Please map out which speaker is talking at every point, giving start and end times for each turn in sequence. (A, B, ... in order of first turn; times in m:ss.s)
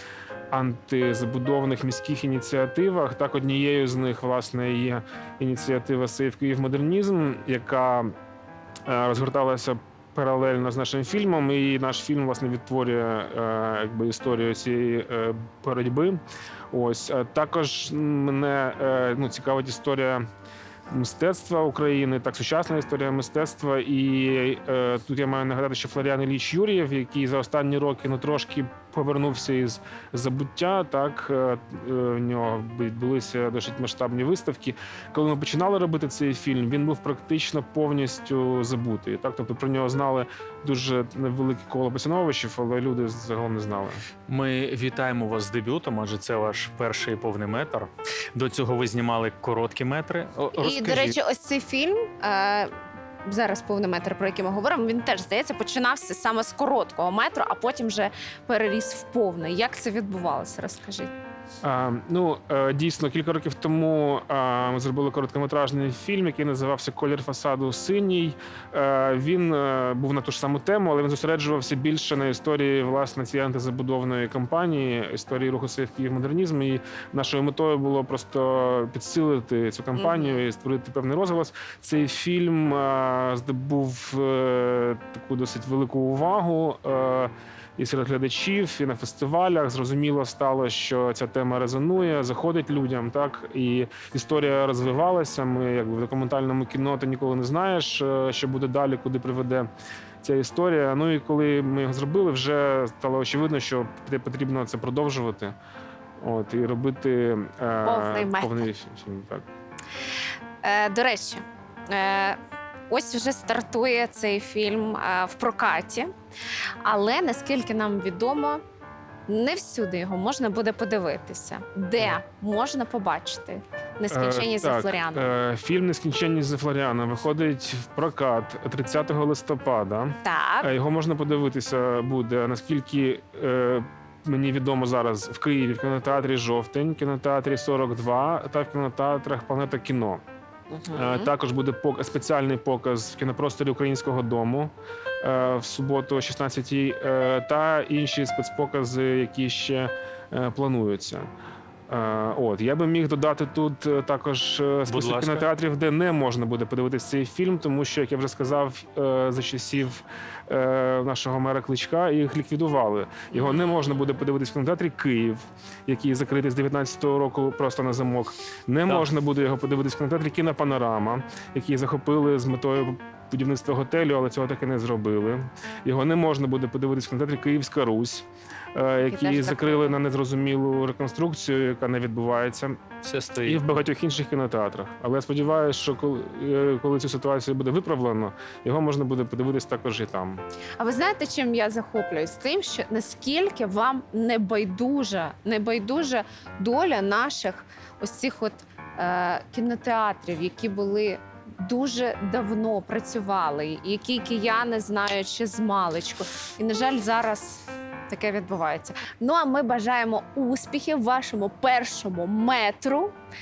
0:00.5-0:08.1 A
0:08.9-0:16.2 A
0:16.7-0:20.2 A
0:20.9-0:44.0 A
0:44.3-0:51.2 B
0:50.6-0:52.7 C
0:53.2-1:01.1 C
1:01.6-1:39.7 A
1:20.0-1:20.4 C
1:40.2-1:45.6 A
1:46.2-1:49.5 A
1:47.8-1:48.6 C
1:50.6-1:52.4 C
1:52.9-1:56.1 C
1:56.8-1:58.6 C
1:59.3-2:05.3 C
2:04.1-2:20.2 A
2:10.2-2:10.7 C
2:20.7-2:21.3 C
2:20.9-2:31.3 A
2:31.9-3:02.8 A
2:34.9-2:35.4 B
2:59.1-3:00.0 C
3:03.0-3:03.6 B
3:03.4-3:10.4 A
3:10.8-3:33.1 C